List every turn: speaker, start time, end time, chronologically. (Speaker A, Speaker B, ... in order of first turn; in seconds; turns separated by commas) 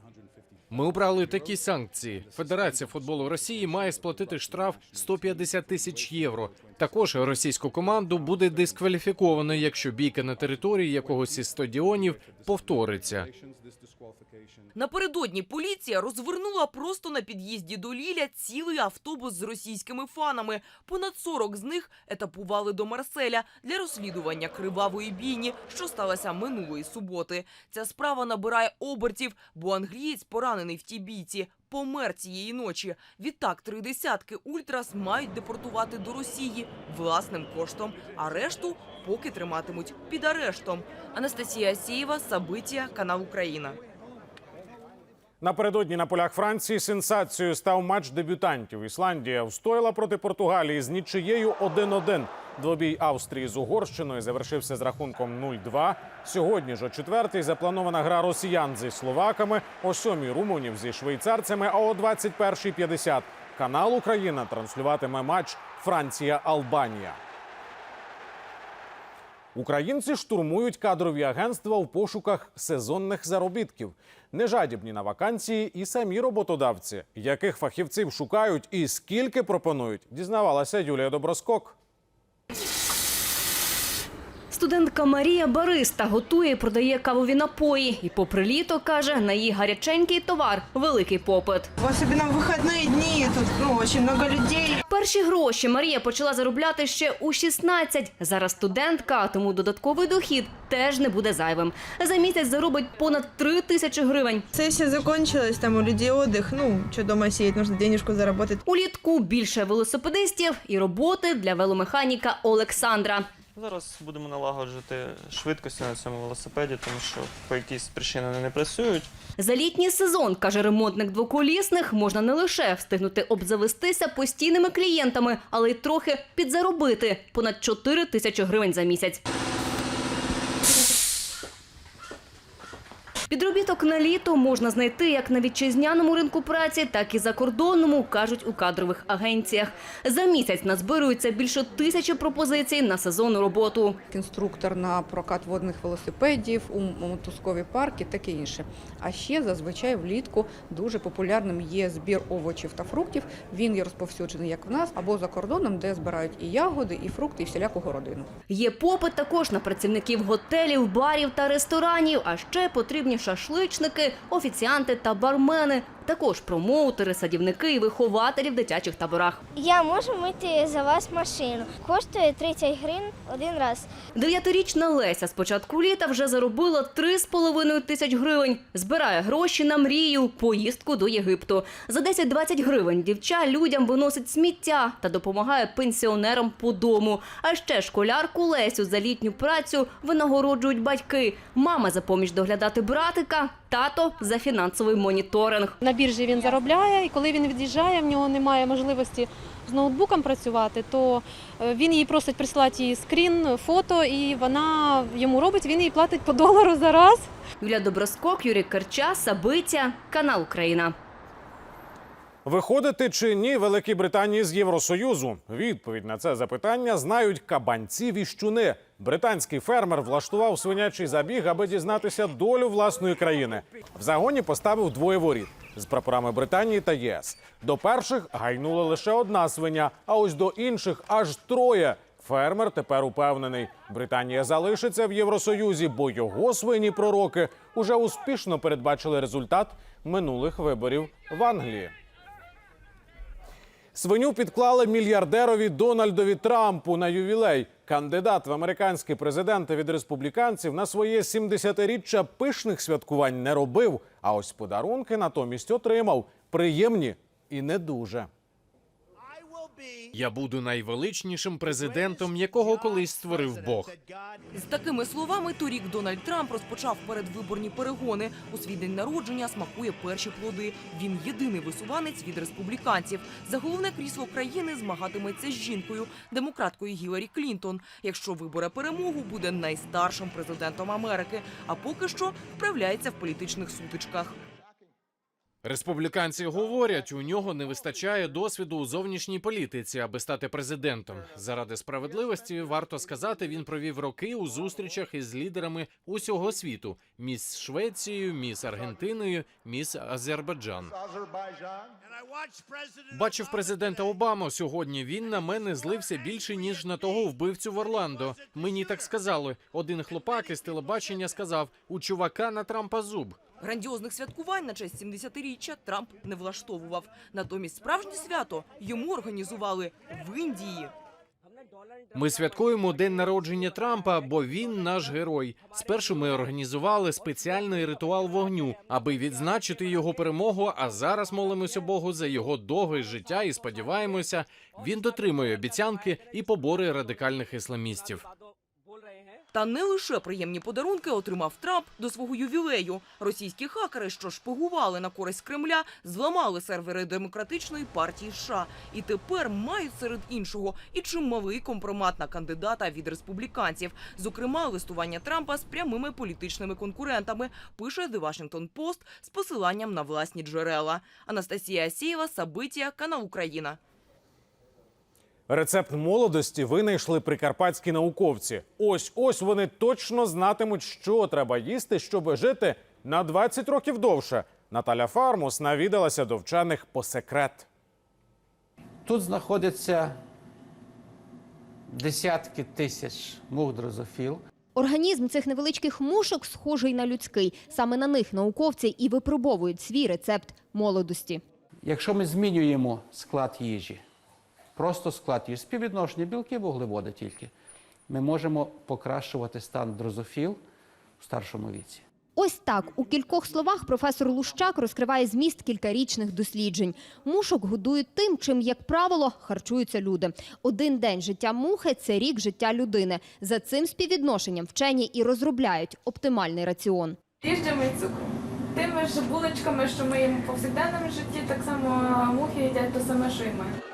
Speaker A: 0.7-13.3, Speaker B: 14.8-43.8, Speaker C: 45.4-67.2, Speaker C: 69.5-81.8, Speaker D: 84.5-91.7, Speaker E: 91.8-94.7, Speaker D: 94.9-104.4, Speaker E: 104.5-108.6, Speaker D: 108.7-113.3, Speaker F: 113.6-119.1, Speaker D: 119.4-129.2, Speaker D: 133.3-144.0, Speaker G: 144.1-158.3, Speaker D: 158.5-169.4, Speaker H: 169.6-173.9, Speaker D: 174.1-195.7, Speaker I: 195.8-207.3, Speaker D: 207.6-210.9, Speaker C: 212.4-241.9, Speaker C: 243.9-258.3, Speaker A: 260.1-263.9, Speaker B: 264.5-284.3, Speaker A: 285.6-300.9, Speaker A: 303.1-313.4, Speaker B: 313.6-320.9, Speaker A: 322.1-338.2, Speaker B: 339.5-363.8, Speaker C: 365.5-377.7, Speaker J: 379.1-380.2, Speaker J: 381.9-384.4, Speaker K: 384.7-391.4, Speaker J: 391.8-394.0, Speaker J: 394.8-397.5, Speaker J: 398.1-400.6, Speaker J: 401.2-402.0, Speaker K: 402.4-417.2, Speaker L: 417.4-423.7